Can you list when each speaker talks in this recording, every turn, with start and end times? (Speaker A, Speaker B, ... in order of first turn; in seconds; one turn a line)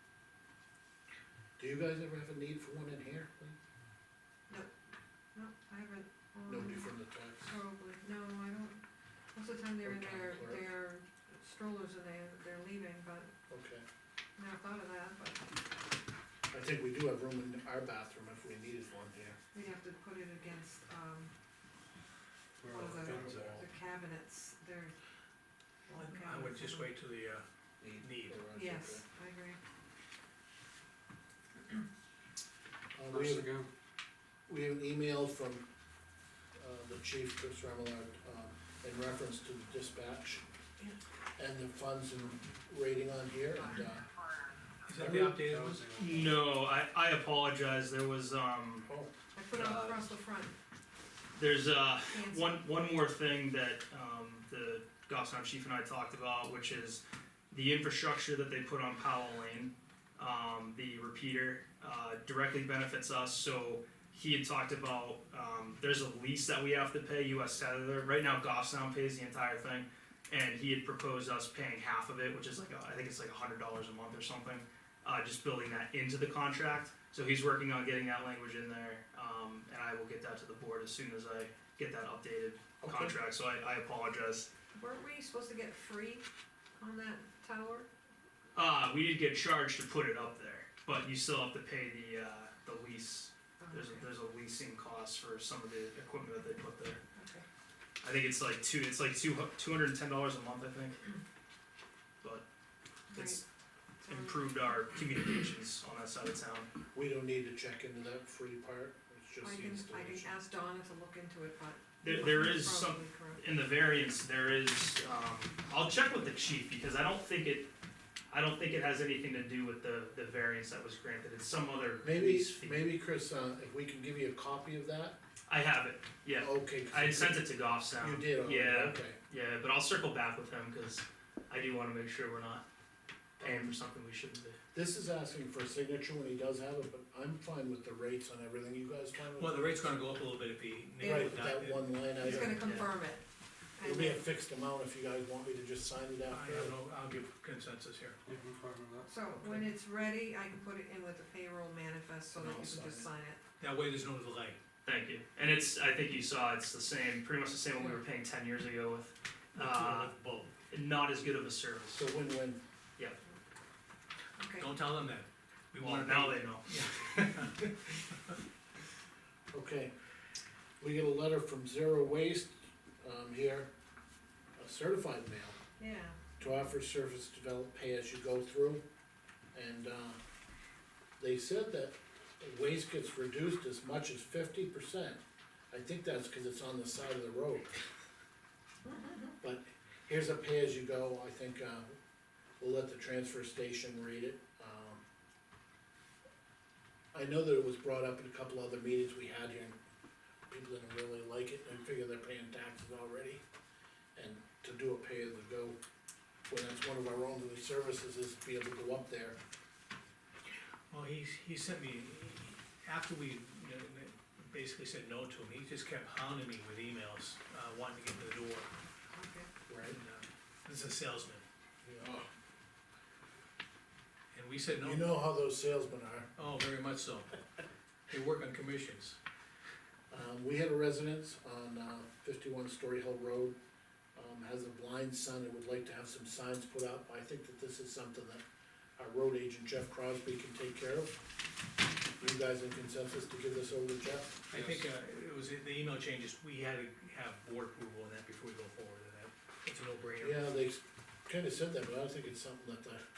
Speaker A: 1.6-3.5
Speaker B: 4.5-4.7
Speaker B: 5.3-6.9
Speaker A: 6.5-7.6
Speaker B: 7.5-8.8
Speaker B: 9.3-13.3
Speaker A: 9.8-10.7
Speaker A: 13.5-13.8
Speaker B: 14.4-15.4
Speaker A: 16.5-19.4
Speaker B: 19.5-21.3
Speaker C: 22.6-23.6
Speaker B: 22.7-25.0
Speaker A: 22.8-23.6
Speaker B: 25.9-26.9
Speaker D: 25.9-27.4
Speaker A: 27.8-29.0
Speaker D: 27.9-28.4
Speaker B: 28.5-29.6
Speaker A: 32.9-33.5
Speaker C: 33.1-33.7
Speaker A: 34.5-35.6
Speaker A: 36.6-40.4
Speaker A: 41.4-44.0
Speaker D: 44.9-46.1
Speaker A: 45.0-45.4
Speaker C: 45.3-46.4
Speaker E: 46.0-48.9
Speaker B: 49.3-50.5
Speaker E: 51.3-84.5
Speaker B: 52.1-52.8
Speaker A: 82.8-83.2
Speaker B: 84.7-86.2
Speaker B: 86.8-87.9
Speaker E: 88.5-97.0
Speaker B: 93.6-94.0
Speaker B: 97.1-97.4
Speaker E: 98.0-101.0
Speaker B: 103.1-103.4
Speaker E: 103.1-103.4
Speaker B: 104.0-104.5
Speaker E: 104.1-106.7
Speaker A: 106.9-110.3
Speaker B: 109.4-113.4
Speaker E: 112.0-117.7
Speaker E: 118.3-122.8
Speaker A: 122.0-125.2
Speaker E: 125.5-132.6
Speaker A: 126.3-129.2
Speaker E: 133.4-134.6
Speaker A: 133.4-133.7
Speaker A: 134.7-139.8
Speaker D: 139.4-141.8
Speaker B: 141.0-141.3
Speaker A: 141.0-142.8
Speaker B: 142.2-143.2
Speaker E: 142.2-142.9
Speaker B: 143.8-144.2
Speaker A: 143.8-146.7
Speaker D: 146.3-148.2
Speaker C: 148.2-149.1
Speaker B: 149.1-153.4
Speaker A: 149.4-149.7
Speaker A: 152.3-153.1
Speaker D: 153.6-154.6
Speaker E: 154.8-160.1
Speaker D: 159.5-160.6
Speaker E: 160.7-162.1
Speaker A: 161.9-162.6
Speaker B: 164.4-164.7
Speaker D: 164.6-167.7
Speaker E: 165.8-166.7
Speaker A: 169.5-169.9
Speaker A: 170.8-173.7
Speaker A: 174.6-175.6
Speaker B: 175.8-176.2
Speaker A: 176.4-178.8
Speaker A: 179.5-180.2
Speaker A: 181.2-185.2
Speaker A: 185.7-187.7
Speaker B: 188.9-189.2
Speaker A: 189.4-191.9
Speaker A: 192.6-195.0
Speaker A: 197.1-199.8
Speaker A: 200.5-203.4
Speaker A: 204.1-205.8
Speaker A: 206.5-209.4
Speaker D: 210.9-218.7
Speaker B: 219.1-219.5
Speaker A: 219.7-220.0
Speaker D: 219.8-221.4
Speaker A: 221.8-222.3
Speaker D: 224.3-225.0
Speaker A: 224.8-226.3
Speaker D: 226.4-227.4
Speaker D: 228.1-229.2
Speaker A: 230.1-233.6
Speaker A: 234.1-238.4
Speaker A: 239.0-241.1
Speaker A: 242.2-244.8
Speaker D: 244.5-250.4
Speaker A: 250.2-253.0